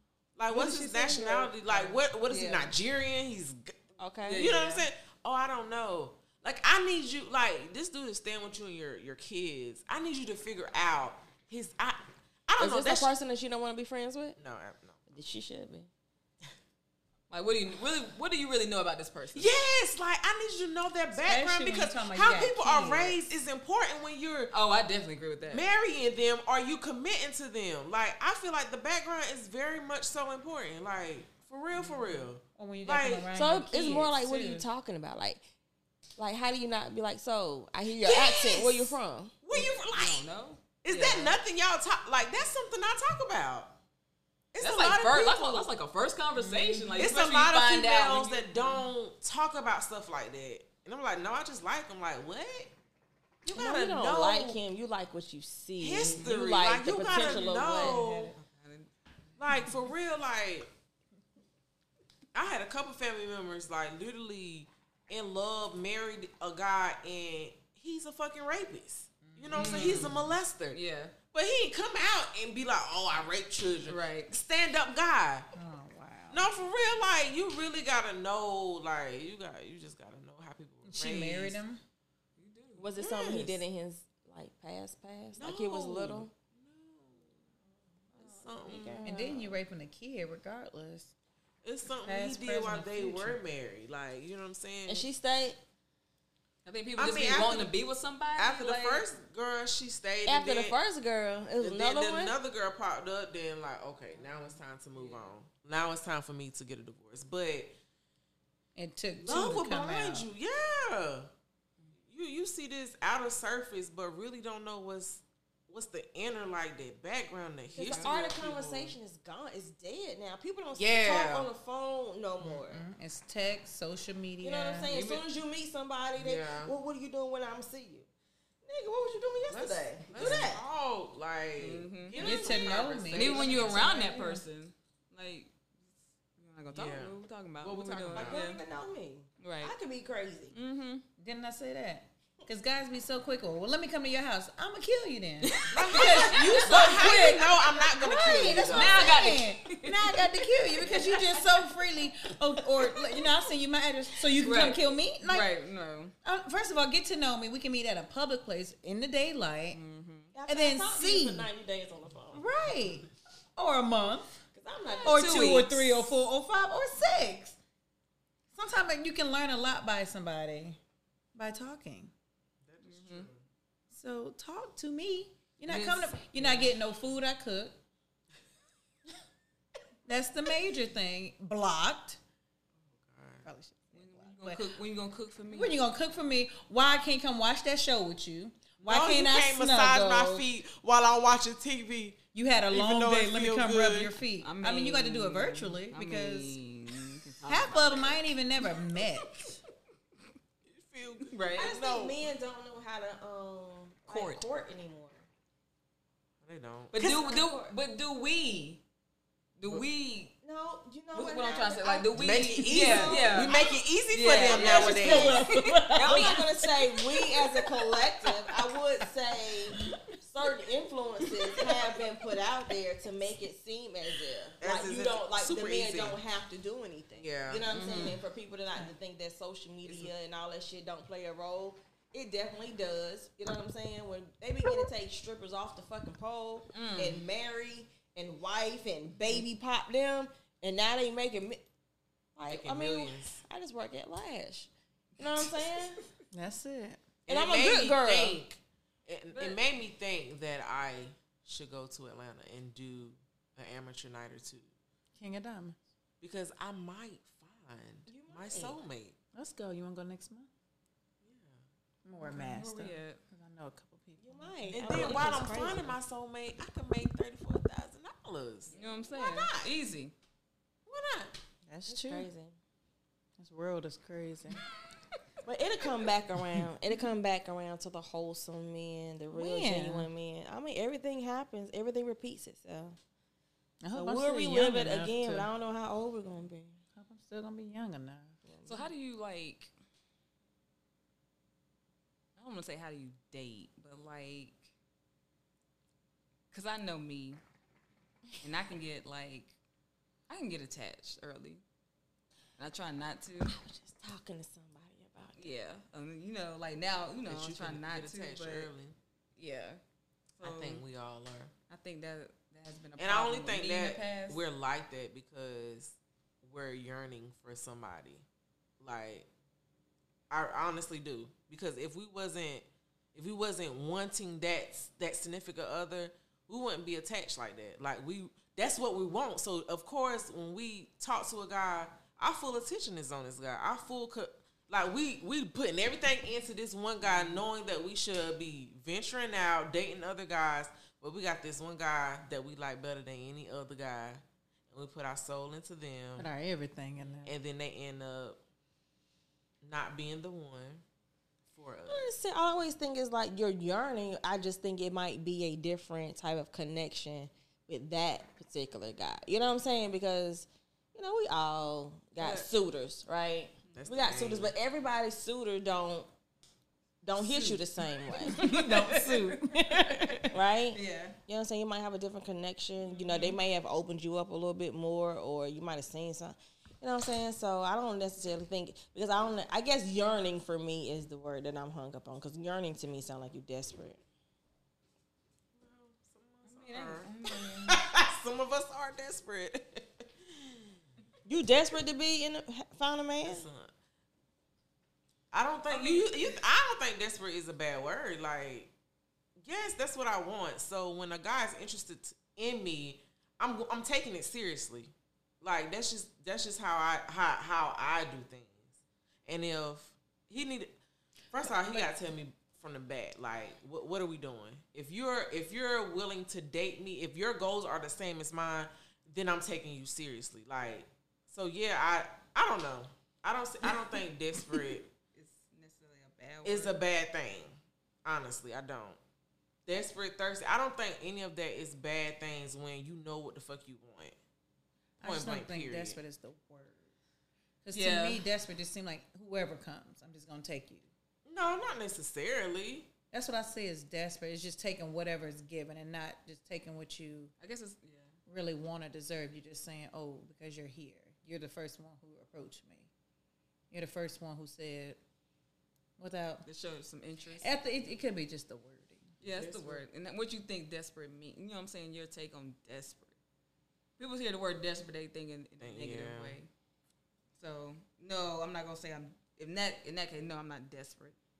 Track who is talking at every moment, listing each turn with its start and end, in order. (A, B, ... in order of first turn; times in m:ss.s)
0:00.4-0:13.1 A
0:00.5-0:02.0 B
0:02.3-0:02.7 C
0:04.0-0:04.5 B
0:04.2-0:04.9 C
0:12.6-0:14.4 B
0:14.4-0:15.0 A
0:15.1-0:15.9 B
0:17.3-0:19.5 C
0:19.3-0:24.5 A
0:21.2-0:23.2 D
0:24.5-0:25.7 C
0:25.5-0:33.3 A
0:31.7-0:32.3 C
0:32.5-0:34.7 D
0:33.3-0:35.4 B
0:36.2-0:39.3 B
0:38.0-0:40.3 A
0:39.5-0:41.4 C
0:40.8-0:43.8 A
0:44.5-0:45.7 A
0:44.6-0:48.9 C
0:46.4-0:47.1 D
0:47.0-0:52.7 A
0:53.4-0:54.6 A
0:53.5-0:58.0 B
0:55.8-0:58.4 A
0:56.0-0:56.3 C
0:57.6-0:58.4 D
0:58.4-0:58.9 C
0:59.4-1:00.7 A
0:59.5-0:59.7 C
1:02.3-1:10.8 A
1:09.2-1:09.8 D
1:09.5-1:11.1 C
1:11.3-1:15.5 A
1:13.8-1:14.3 C
1:15.5-1:16.4 D
1:16.3-1:21.6 A
1:20.8-1:21.8 D
1:22.4-1:22.8 C
1:22.8-1:26.3 B
1:23.0-1:23.6 A
1:25.4-1:27.4 A
1:28.2-1:29.0 A
1:28.3-1:29.6 B
1:29.0-1:31.1 D
1:31.6-1:35.1 A
1:32.0-1:33.4 D
1:34.8-1:35.6 B
1:36.6-1:39.1 C
1:37.0-1:37.7 A
1:38.4-1:40.8 A
1:40.2-1:42.4 B
1:41.6-1:47.8 A
1:44.9-1:45.3 C
1:48.8-1:50.3 D
1:49.2-1:51.3 A
1:52.1-1:59.0 A
1:57.7-2:02.8 B
2:00.7-2:01.5 A
2:02.4-2:02.6 A
2:02.7-2:04.9 D
2:04.4-2:08.1 B
2:04.9-2:05.2 C
2:06.1-2:06.7 A
2:08.6-2:10.6 B
2:09.5-2:13.8 A
2:10.1-2:10.4 C
2:11.6-2:12.4 C
2:12.2-2:14.4 D
2:13.1-2:18.6 C
2:16.7-2:18.4 A
2:18.1-2:20.6 B
2:19.4-2:19.7 C
2:20.5-2:21.0 C
2:21.2-2:35.5 D
2:25.4-2:27.0 C
2:25.7-2:29.2 A
2:28.6-2:31.0 C
2:30.8-2:31.2 B
2:32.8-2:33.2 C
2:34.4-2:36.1 C
2:36.2-2:39.8 D
2:39.7-2:40.3 C
2:40.3-2:42.4 B
2:40.5-2:41.5 D
2:42.3-2:44.4 D
2:44.5-2:45.7 B
2:44.8-2:46.1 C
2:45.0-2:47.6 D
2:48.5-2:50.8 D
2:51.3-2:52.1 D
2:52.6-2:53.4 A
2:52.8-2:53.3 C
2:53.9-2:57.8 D
2:55.6-2:56.7 C
3:00.0-3:02.2 D
3:02.8-3:03.5 A
3:03.4-3:04.6 D
3:03.9-3:05.8 C
3:05.5-3:10.4 D
3:08.8-3:12.2 A
3:12.3-3:16.6 D
3:12.7-3:14.2 A
3:14.4-3:18.2 C
3:17.4-3:19.6 D
3:20.6-3:22.2 A
3:21.2-3:21.7 C
3:21.5-3:25.3 B
3:24.1-3:24.4 C
3:26.4-3:27.3 A
3:26.9-3:28.8 C
3:27.0-3:27.7 B
3:29.6-3:30.3 C
3:30.4-4:01.6 B
3:31.1-3:33.5 C
3:32.1-3:35.4 A
3:34.1-3:36.5 C
3:34.9-3:38.4 D
3:44.6-3:46.2 A
3:47.2-3:47.7 A
3:47.7-3:48.2 C
3:49.8-3:50.1 A
3:56.7-3:57.2 C
4:02.3-4:06.0 B
4:02.4-4:03.4 A
4:06.3-4:07.0 D
4:07.2-4:14.7 A
4:07.3-4:08.4 B
4:09.3-4:09.6 C
4:15.1-4:15.8 D
4:16.2-4:19.2 A
4:18.1-4:18.8 B
4:19.3-4:20.5 D
4:21.2-4:21.6 A
4:22.0-4:25.8 D
4:22.2-4:23.2 C
4:24.2-4:25.9 B
4:24.7-4:29.5 A
4:28.7-4:29.6 B
4:28.7-4:30.1 C
4:30.8-4:31.3 A
4:31.6-4:32.3 D
4:31.9-4:32.6 B
4:33.4-4:34.6 D
4:35.4-4:43.0 B
4:39.3-4:40.1 D
4:43.8-4:45.5 D
4:43.9-4:46.8 B
4:46.9-4:48.4 D
4:48.4-4:48.9 B
4:48.6-4:49.7 C
4:52.4-4:54.7 C
4:56.5-4:57.4 C
4:58.4-4:59.6 C
5:00.3-5:01.6 C
5:02.6-5:03.5 C
5:03.4-5:05.5 B
5:05.4-5:08.7 C
5:07.2-5:09.0 A
5:09.4-5:09.8 C
5:10.3-5:10.8 C
5:10.4-5:11.5 A
5:11.7-5:14.4 C
5:13.0-5:18.2 A
5:18.8-5:19.3 A
5:20.3-5:46.3 A
5:37.0-5:37.4 D
5:46.2-5:47.3 D
5:47.2-5:48.4 A
5:49.6-5:50.8 A
5:51.5-5:52.1 A
5:51.9-6:06.1 B
6:02.2-6:02.5 C
6:03.7-6:04.5 A
6:07.0-6:08.5 B
6:07.3-6:07.6 C
6:08.1-6:11.2 C
6:08.2-6:10.4 D
6:10.3-6:24.0 B
6:12.8-6:13.4 C
6:25.5-6:30.8 A
6:26.4-6:27.8 C
6:31.2-6:33.4 B
6:33.2-6:33.7 A
6:35.3-6:38.7 A
6:35.7-6:36.4 C
6:39.4-6:48.7 A
6:49.2-6:50.7 A
6:51.3-7:04.9 A
7:04.5-7:06.8 C
7:06.4-7:09.0 A
7:09.6-7:14.2 A
7:15.0-7:16.9 D
7:15.0-7:16.0 A
7:17.6-7:20.9 D
7:17.7-7:18.2 C
7:21.2-7:22.9 A
7:23.1-7:27.3 D
7:27.4-7:28.2 C
7:28.3-7:32.9 D
7:33.7-7:35.0 D
7:36.0-7:36.4 D
7:36.4-7:37.5 C
7:37.4-7:39.1 D
7:39.2-7:43.2 C
7:39.2-7:39.8 A
7:44.0-7:46.5 C
7:45.6-7:46.4 A
7:47.3-7:51.2 C